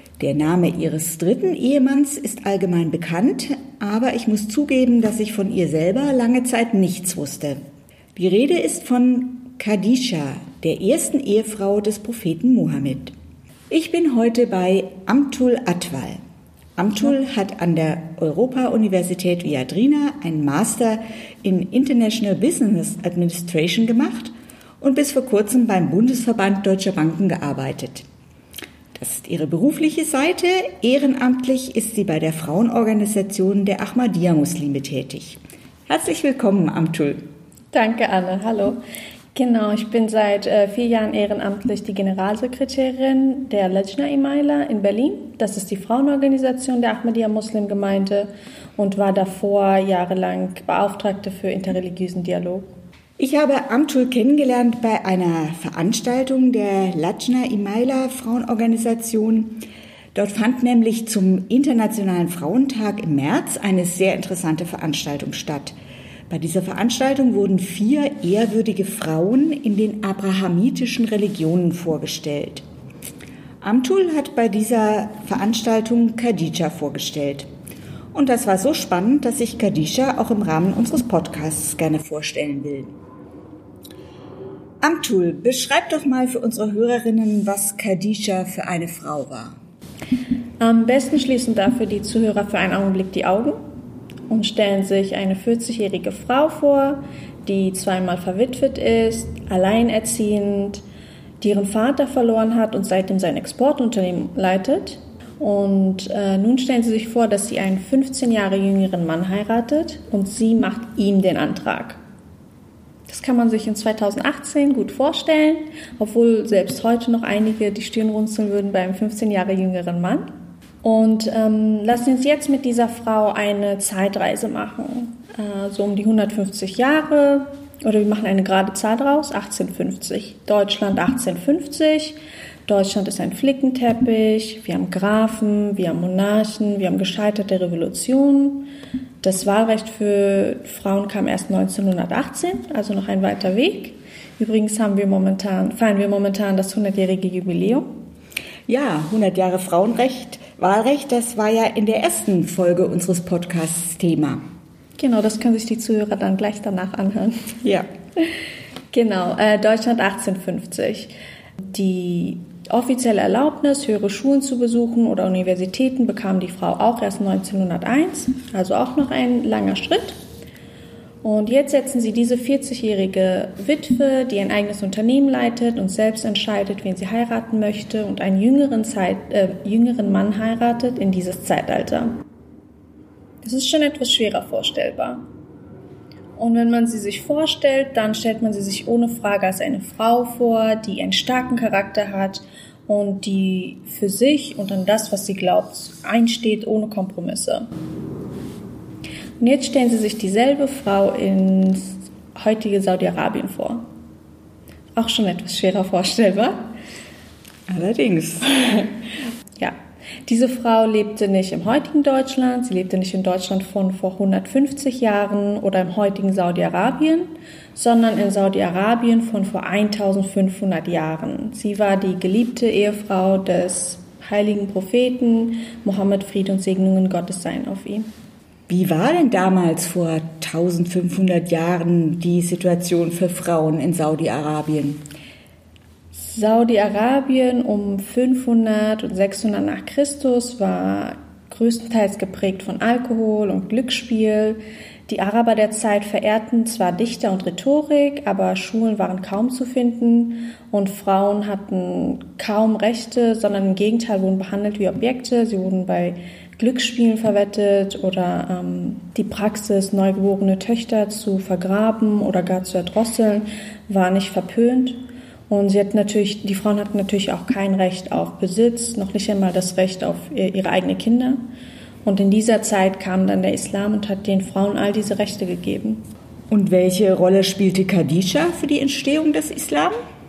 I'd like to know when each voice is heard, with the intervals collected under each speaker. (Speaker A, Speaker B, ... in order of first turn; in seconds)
Speaker A: 0.2-7.6, 8.1-13.1, 13.7-16.2, 16.8-28.1, 28.9-37.2, 53.2-65.8, 66.3-72.6, 73.6-77.5, 78.1-82.9, 84.8-89.6, 148.7-154.4, 207.7-208.9, 228.7-235.0, 276.5-279.9
Speaker B: 37.7-38.8, 39.3-52.7, 90.6-93.6, 94.3-100.8, 101.4-112.0, 113.1-120.3, 120.8-138.7, 139.2-147.9, 155.0-157.6, 158.9-170.2, 171.2-182.2, 183.4-185.2, 186.3-197.7, 199.4-203.8, 204.9-206.7, 209.6-228.1, 236.1-271.4, 272.0-276.0